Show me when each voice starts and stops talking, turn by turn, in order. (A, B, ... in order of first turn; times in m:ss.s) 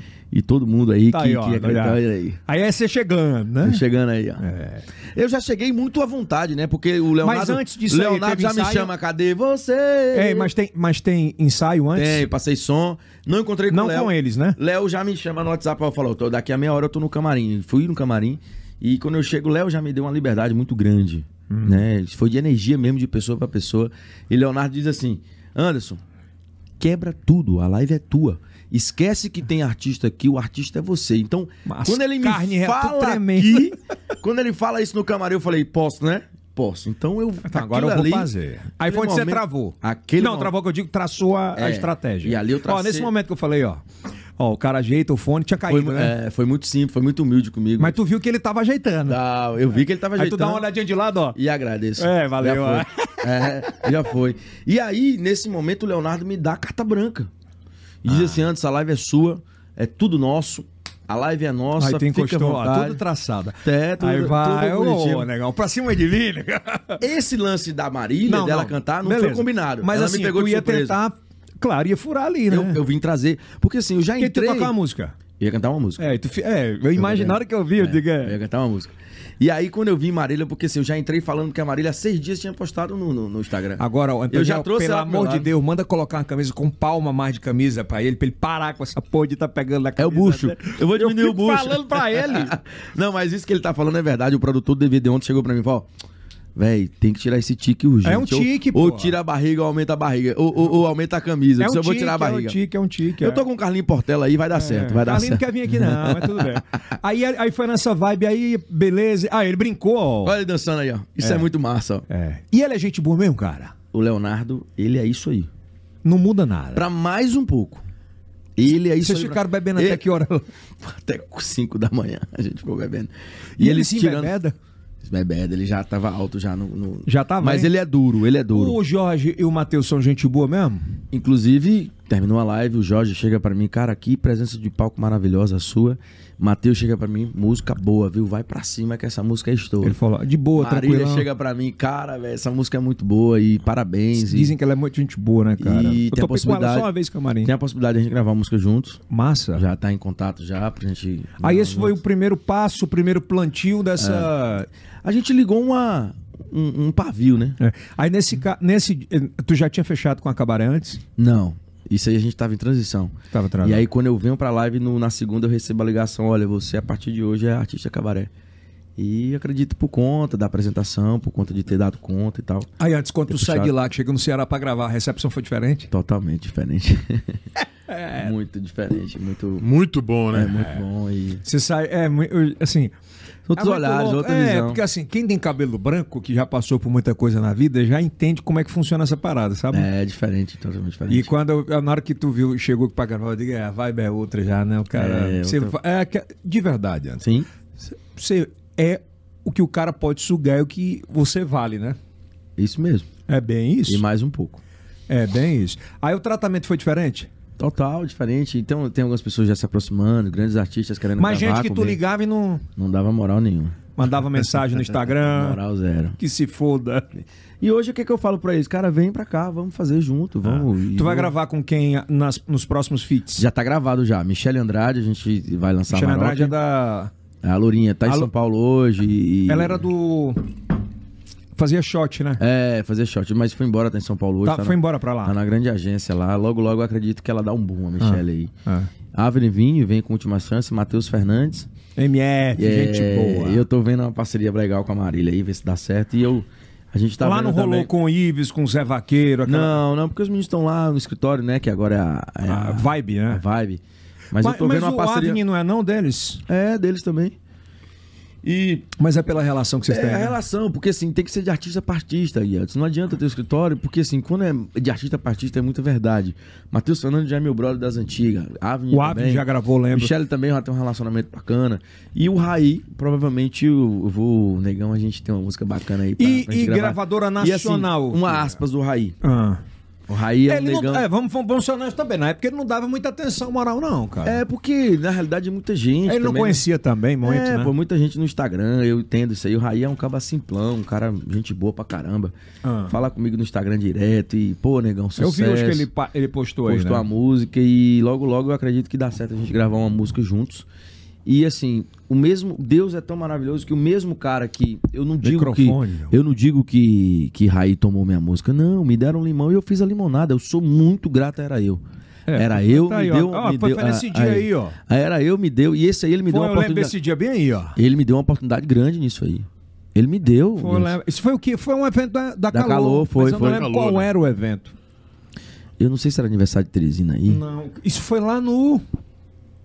0:00.3-0:02.4 A
0:01.1-0:03.8 B
0:03.6-0:04.4 A
0:04.4-0:04.9 B
0:05.1-0:10.5 A
0:07.2-0:08.9 B
0:10.1-0:12.2 B
0:11.9-0:26.0 A
0:13.7-0:14.6 B
0:21.5-0:21.8 B
0:26.8-0:40.5 A
0:31.7-0:33.8 B
0:37.4-0:43.8 B
0:41.6-0:43.1 A
0:44.4-0:46.1 B
0:45.7-0:48.0 A
0:47.8-0:49.2 B
0:49.1-0:50.7 A
0:50.1-0:51.4 B
0:51.4-0:57.3 A
0:52.0-0:53.9 B
0:58.0-1:03.0 A
0:58.1-0:58.4 B
1:01.8-1:07.0 B
1:03.6-1:05.3 A
1:07.0-1:11.0 A
1:08.3-1:12.8 B
1:12.5-1:14.7 A
1:14.2-1:15.2 B
1:15.4-1:16.0 A
1:16.0-1:18.4 B
1:17.0-1:25.5 A
1:23.8-1:32.6 B
1:30.0-1:35.9 A
1:36.6-1:42.6 A
1:38.0-1:39.2 B
1:41.6-1:43.4 B
1:43.2-1:46.6 A
1:44.5-1:50.4 B
1:50.2-1:52.1 A
1:51.2-1:51.5 B
1:52.1-1:53.7 B
1:53.9-1:55.5 A
1:56.0-1:56.8 B
1:56.7-1:57.8 A
1:58.6-2:00.0 A
1:59.0-2:00.5 B
2:00.8-2:04.4 A
2:03.6-2:04.6 B
2:05.0-2:08.8 A
2:07.1-2:07.7 B
2:08.5-2:10.8 B
2:11.1-2:20.0 A
2:19.8-2:21.3 B
2:20.6-2:24.6 A
2:24.2-2:27.5 B
2:25.6-2:26.9 A
2:27.4-2:29.0 A
2:29.1-2:29.6 B
2:29.6-2:32.0 A
2:31.4-2:34.7 B
2:34.0-2:34.3 A
2:35.0-2:37.6 A
2:37.6-2:41.0 B
2:41.2-2:48.3 A
2:43.3-2:43.9 B
2:49.0-2:52.7 A
2:52.8-2:55.9 B
2:53.3-2:53.7 A
2:55.9-2:57.4 A
2:57.9-2:58.3 B
2:58.2-2:59.7 A
2:59.6-3:00.8 C
3:00.3-3:01.4 A
3:01.4-3:02.9 B
3:03.5-3:04.8 A
3:03.6-3:09.9 B
3:09.7-3:11.3 A
3:11.1-3:17.3 B
3:14.9-3:15.8 A
3:17.2-3:17.5 A
3:17.9-3:22.0 B
3:22.6-3:23.1 A
3:23.3-3:24.0 B
3:23.9-3:24.6 A
3:25.1-3:27.3 B
3:27.6-3:32.0 A
3:31.2-3:32.6 B
3:32.8-3:33.8 A
3:34.0-3:35.6 B
3:35.2-3:36.2 A
3:36.2-3:37.1 B
3:37.2-3:41.3 A
3:40.4-3:43.5 B
3:43.4-3:46.6 A
3:45.9-3:47.1 B
3:47.4-3:49.9 A
3:49.5-3:50.4 B
3:51.6-3:52.4 B
3:52.4-3:58.5 A
3:54.4-3:55.4 B
3:58.0-3:58.9 B
3:59.1-4:01.7 A
4:02.0-4:03.7 B
4:02.6-4:07.9 A
4:07.2-4:09.8 B
4:09.4-4:15.4 A
4:12.5-4:13.4 B
4:14.4-4:16.4 B
4:16.5-4:17.4 A
4:18.4-4:18.9 A
4:19.0-4:20.4 B
4:19.9-4:39.2 A
4:28.9-4:30.1 B
4:36.2-4:38.6 B
4:39.2-4:39.6 B
4:40.1-4:41.1 A
4:40.5-4:44.4 B
4:44.2-4:46.6 A
4:46.1-4:47.7 B
4:47.2-4:52.4 A
4:52.6-4:52.9 B
4:52.9-4:55.9 A
4:55.2-4:57.0 B
4:56.7-5:00.7 A
5:01.2-5:11.8 A
5:05.2-5:06.1 B
5:12.3-5:14.8 B
5:12.3-5:17.0 A
5:16.3-5:17.8 B
5:17.8-5:21.0 A
5:20.6-5:24.7 B
5:22.5-5:23.6 A
5:23.3-5:24.1 C
5:25.8-5:27.4 A
5:27.3-5:28.8 B